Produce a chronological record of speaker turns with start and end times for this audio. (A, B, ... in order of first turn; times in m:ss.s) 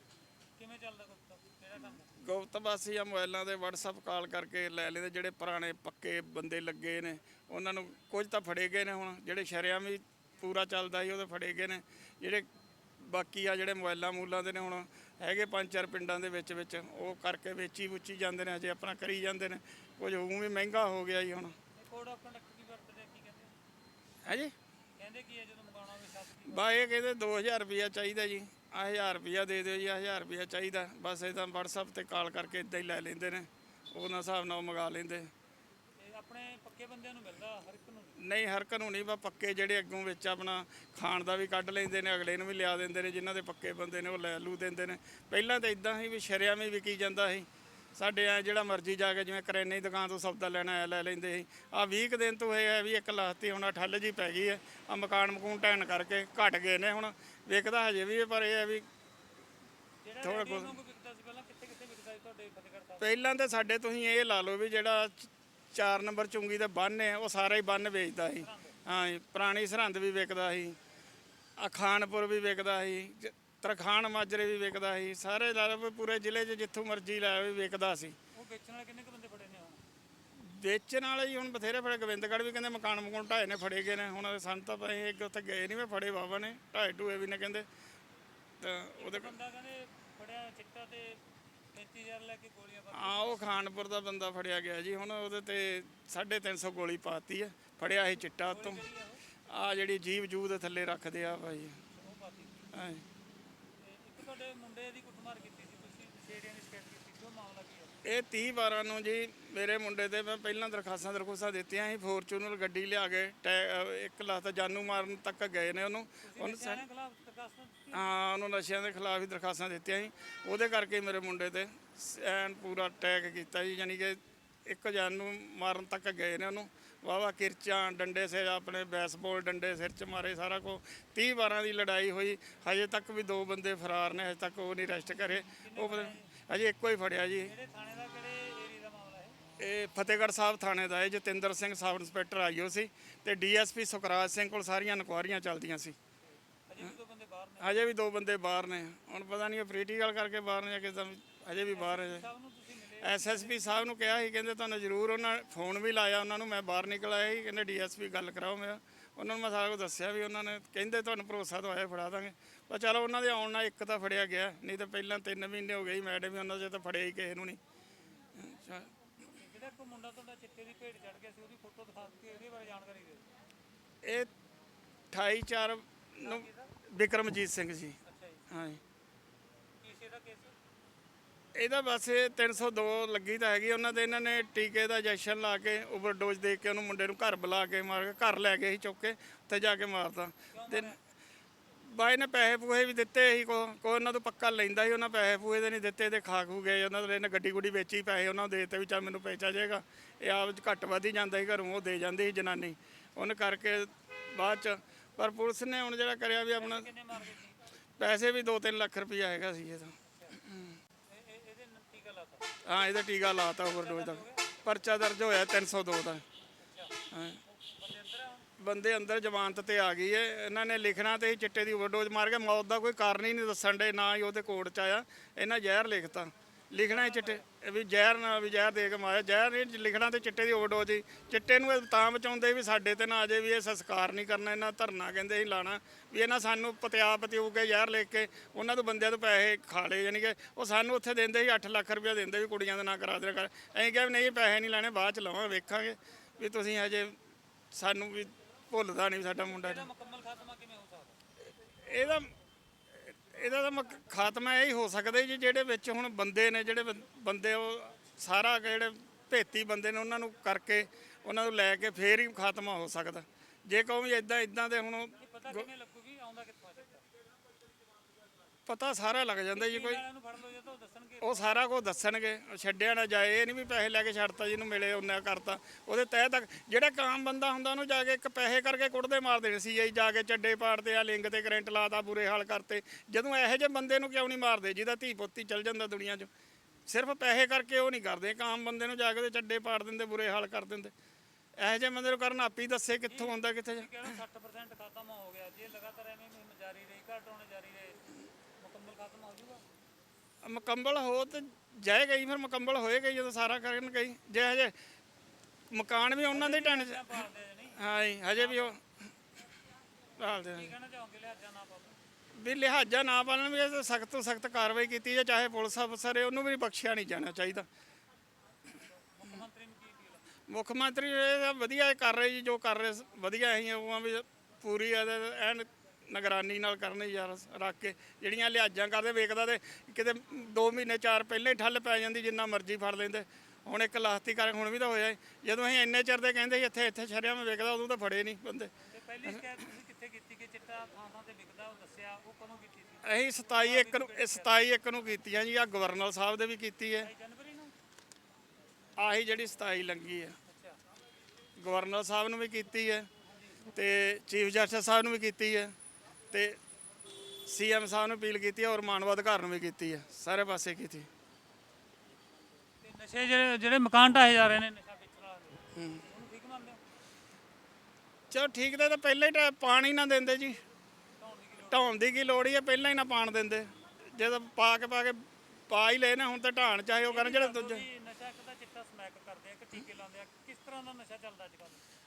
0:00.6-0:02.1 A
0:02.1-0:12.5 B
0:13.0-0:21.6 B
0:21.7-0:23.5 A
0:24.2-0:24.5 B
0:25.0-0:26.7 A
0:26.5-0:35.3 B
0:36.0-0:38.2 A
0:38.2-0:58.9 B
1:00.0-1:03.2 A
1:00.2-1:00.8 B
1:03.0-1:10.8 B
1:08.3-1:08.8 A
1:11.6-1:18.2 B
1:18.3-1:19.8 A
1:20.3-1:27.7 B
1:28.6-1:29.3 B
1:29.0-1:31.2 A
1:31.7-1:33.5 A
1:32.9-1:38.8 B
1:38.4-1:39.2 A
1:39.5-1:41.8 B
1:41.9-1:42.7 A
1:42.7-1:43.0 B
1:43.8-1:48.0 A
1:48.0-1:56.8 B
1:56.2-1:58.2 A
1:57.9-2:17.5 B
2:15.4-2:16.3 A
2:17.4-2:19.4 A
2:19.6-2:26.0 B
2:26.7-2:27.9 A
2:27.6-2:32.3 B
2:31.7-2:33.9 A
2:33.0-2:47.6 B
2:48.3-2:48.9 B
2:49.3-2:53.2 A
2:54.0-2:54.3 B
2:55.1-2:58.0 B
2:56.2-2:56.7 A
2:58.0-2:58.5 A
2:58.5-2:58.8 B
2:59.8-3:00.6 A
3:01.6-3:11.0 B
3:10.5-3:11.0 A
3:11.9-3:26.9 B
3:26.5-3:27.7 A
3:28.0-3:30.8 B
3:30.1-3:30.4 A
3:31.1-3:32.5 A
3:32.6-3:36.2 B
3:33.6-3:34.5 A
3:36.6-3:38.5 A
3:37.1-3:37.4 B
3:38.6-4:07.2 B
3:46.9-3:47.4 A
4:07.7-4:09.9 B
4:09.4-4:11.2 A
4:11.8-4:12.3 B
4:13.0-4:25.7 B
4:25.2-4:27.1 A
4:28.7-4:30.0 B
4:29.5-4:31.6 A
4:31.2-4:46.3 B
4:46.9-4:50.9 B
4:51.6-4:53.9 B
4:53.1-4:58.0 A
4:58.6-4:59.6 A
5:00.4-5:04.7 B
5:05.7-5:08.8 B
5:06.3-5:07.8 A
5:08.3-5:08.8 A
5:10.2-5:10.7 B
5:10.5-5:12.0 A
5:12.3-5:17.7 B
5:18.7-5:20.3 A
5:20.5-5:38.7 B
5:38.8-5:44.6 A
5:43.0-5:47.1 B
5:47.0-5:47.8 A
5:49.0-5:50.4 B
5:50.5-5:50.8 A
5:51.6-5:53.1 B
5:53.2-5:53.7 A
5:53.7-5:55.8 B
5:56.3-5:56.6 B
5:57.4-6:01.1 B
6:02.8-6:06.8 A
6:05.8-6:06.0 B
6:08.3-6:10.6 B
6:11.2-6:12.0 A
6:11.7-6:17.8 B
6:17.0-6:21.8 A